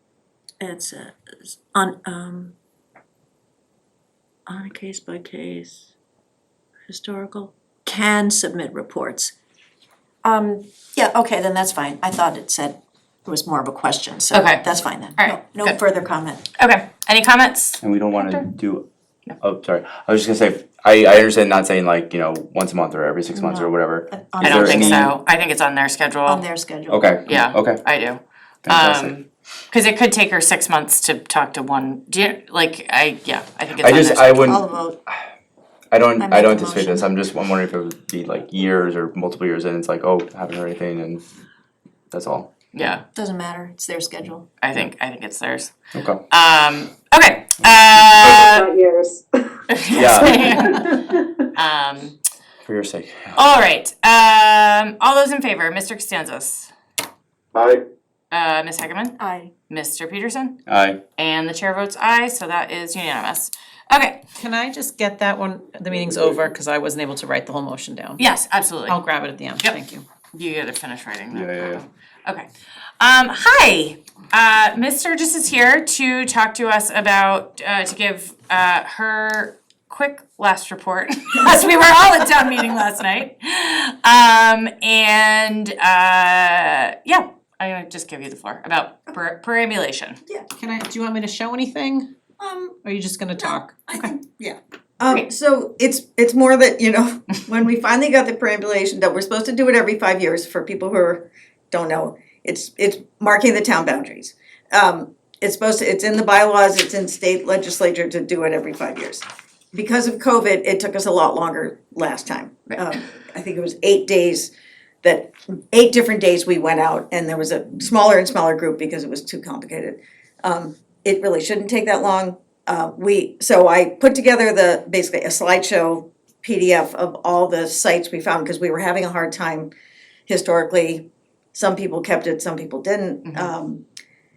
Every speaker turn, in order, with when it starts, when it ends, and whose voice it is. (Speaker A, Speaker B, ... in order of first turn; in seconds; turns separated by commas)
Speaker A: 0.6-2.5, Speaker A: 4.5-5.9, Speaker A: 6.9-9.3, Speaker A: 10.2-16.4, Speaker B: 14.3-15.8, Speaker B: 16.6-18.5, Speaker C: 17.8-18.8, Speaker C: 19.4-25.1, Speaker A: 23.3-25.1, Speaker B: 24.4-26.4, Speaker A: 26.2-27.1, Speaker C: 26.9-27.8, Speaker B: 27.3-34.6, Speaker C: 28.6-29.1, Speaker C: 33.8-35.1, Speaker A: 34.4-35.0, Speaker C: 35.9-41.2, Speaker A: 36.2-37.1, Speaker C: 42.1-42.5, Speaker B: 42.7-43.0, Speaker A: 43.1-44.4, Speaker B: 44.6-45.7, Speaker C: 45.9-46.2, Speaker B: 46.3-48.7, Speaker A: 48.5-49.2, Speaker B: 49.7-52.1, Speaker C: 49.9-50.7, Speaker C: 52.6-53.4, Speaker B: 53.3-56.7, Speaker B: 58.3-59.2, Speaker A: 59.2-59.5, Speaker B: 59.7-60.5, Speaker C: 60.7-61.0, Speaker B: 61.2-64.2, Speaker D: 64.4-68.2, Speaker B: 68.2-69.0, Speaker D: 68.8-70.0, Speaker B: 70.3-72.5, Speaker C: 71.3-71.8, Speaker B: 73.0-90.2, Speaker D: 90.5-92.1, Speaker E: 92.4-92.8, Speaker D: 92.8-94.1, Speaker E: 93.4-114.5, Speaker E: 115.0-129.7, Speaker E: 130.3-133.8